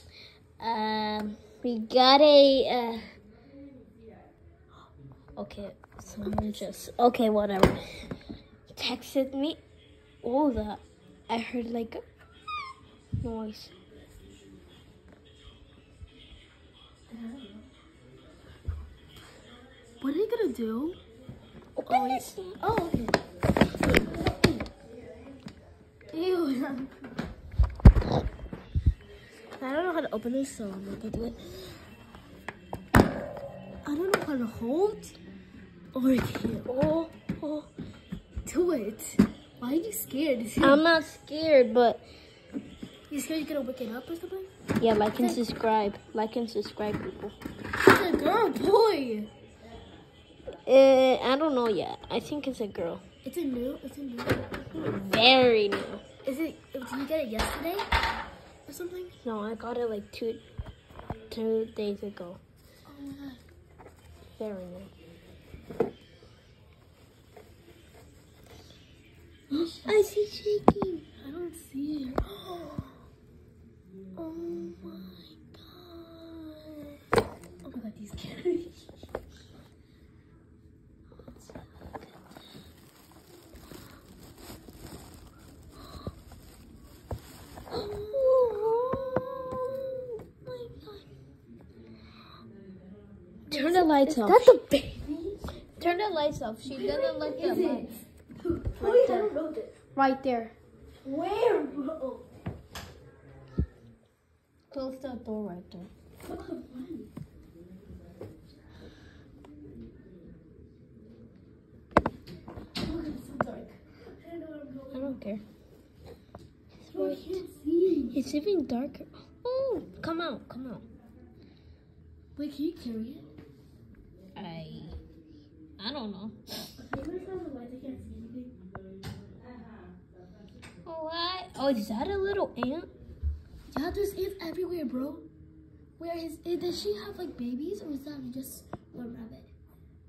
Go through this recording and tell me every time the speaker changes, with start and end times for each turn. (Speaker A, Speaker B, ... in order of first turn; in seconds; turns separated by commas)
Speaker A: 0.6-3.1, Speaker A: 5.4-8.1, Speaker B: 6.0-6.7, Speaker A: 8.7-9.6, Speaker A: 10.2-12.0, Speaker A: 13.2-13.7, Speaker B: 17.1-17.6, Speaker B: 20.0-21.0, Speaker A: 21.8-22.6, Speaker B: 21.9-23.2, Speaker B: 23.8-24.7, Speaker B: 26.1-26.9, Speaker B: 29.6-31.8, Speaker B: 33.9-35.2, Speaker B: 35.9-36.7, Speaker A: 36.7-37.7, Speaker B: 38.5-40.9, Speaker A: 40.6-42.0, Speaker B: 43.1-44.5, Speaker A: 44.8-47.4, Speaker B: 45.2-45.4, Speaker B: 47.8-49.3, Speaker A: 50.7-53.0, Speaker B: 53.2-54.5, Speaker A: 54.8-56.0, Speaker B: 56.2-57.9, Speaker B: 58.7-59.2, Speaker A: 59.2-60.4, Speaker A: 61.3-62.4, Speaker B: 62.9-63.4, Speaker A: 64.4-64.9, Speaker B: 69.5-70.0, Speaker A: 69.8-71.0, Speaker B: 71.2-73.0, Speaker A: 74.2-75.0, Speaker B: 74.4-75.6, Speaker A: 75.7-76.7, Speaker B: 77.6-79.1, Speaker B: 87.7-88.6, Speaker A: 87.7-91.0, Speaker A: 93.5-94.6, Speaker B: 93.5-96.0, Speaker A: 95.8-97.9, Speaker B: 96.7-99.8, Speaker A: 98.8-99.3, Speaker A: 100.0-100.5, Speaker B: 101.0-102.3, Speaker A: 104.7-105.9, Speaker B: 106.2-107.1, Speaker B: 112.8-115.2, Speaker A: 114.9-115.4, Speaker A: 116.8-117.4, Speaker B: 116.9-118.2, Speaker A: 118.1-120.9, Speaker B: 122.4-123.3, Speaker A: 124.3-125.0, Speaker A: 125.8-126.7, Speaker B: 126.8-128.5, Speaker A: 130.9-132.9, Speaker B: 133.7-135.3, Speaker B: 136.0-139.5